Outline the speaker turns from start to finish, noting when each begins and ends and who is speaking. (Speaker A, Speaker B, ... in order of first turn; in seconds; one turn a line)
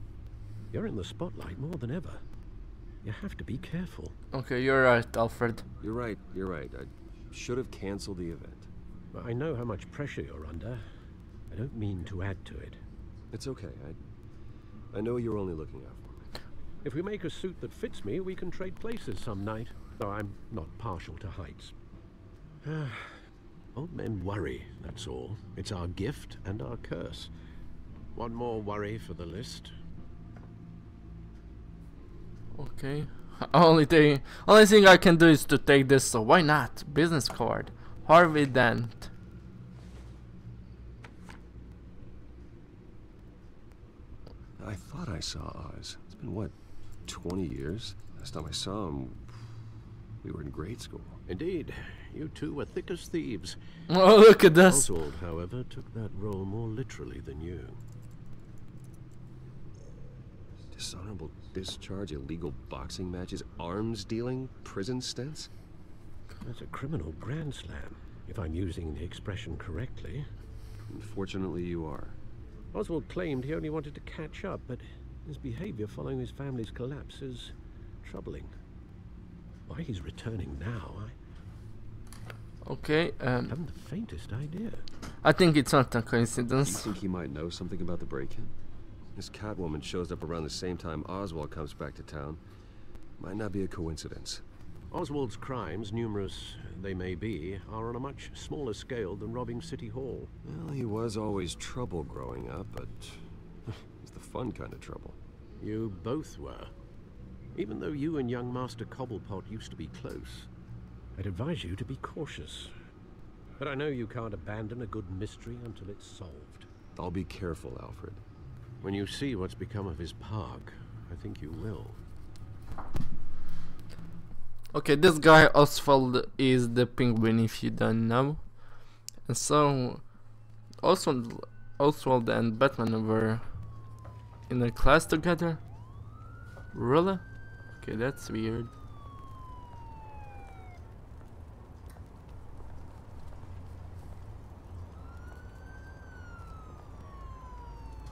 Speaker A: 0.7-2.2
Speaker A: 3.0-4.1
Speaker B: 4.3-5.6
Speaker C: 5.8-8.7
Speaker A: 9.1-10.8
Speaker A: 11.5-12.8
Speaker C: 13.3-14.0
Speaker C: 14.9-16.3
Speaker A: 16.8-21.7
Speaker A: 22.6-23.2
Speaker A: 23.7-27.3
Speaker A: 28.1-29.7
Speaker B: 32.5-39.1
Speaker C: 44.6-46.5
Speaker C: 47.0-49.5
Speaker C: 50.2-51.2
Speaker A: 51.3-53.6
Speaker B: 53.9-54.9
Speaker A: 54.6-57.8
Speaker C: 60.7-65.5
Speaker A: 66.4-70.3
Speaker C: 70.9-72.2
Speaker A: 72.7-78.5
Speaker A: 79.7-81.1
Speaker B: 82.6-83.6
Speaker A: 83.5-84.8
Speaker B: 85.2-86.9
Speaker C: 86.6-88.5
Speaker C: 89.1-92.4
Speaker C: 93.2-94.4
Speaker A: 94.9-100.3
Speaker C: 100.4-105.2
Speaker A: 105.6-106.7
Speaker A: 107.5-110.5
Speaker A: 111.2-112.7
Speaker A: 113.6-116.7
Speaker C: 117.0-118.2
Speaker A: 118.8-122.0
Speaker B: 124.7-130.2
Speaker B: 130.8-133.8
Speaker B: 134.5-135.6
Speaker B: 136.7-138.7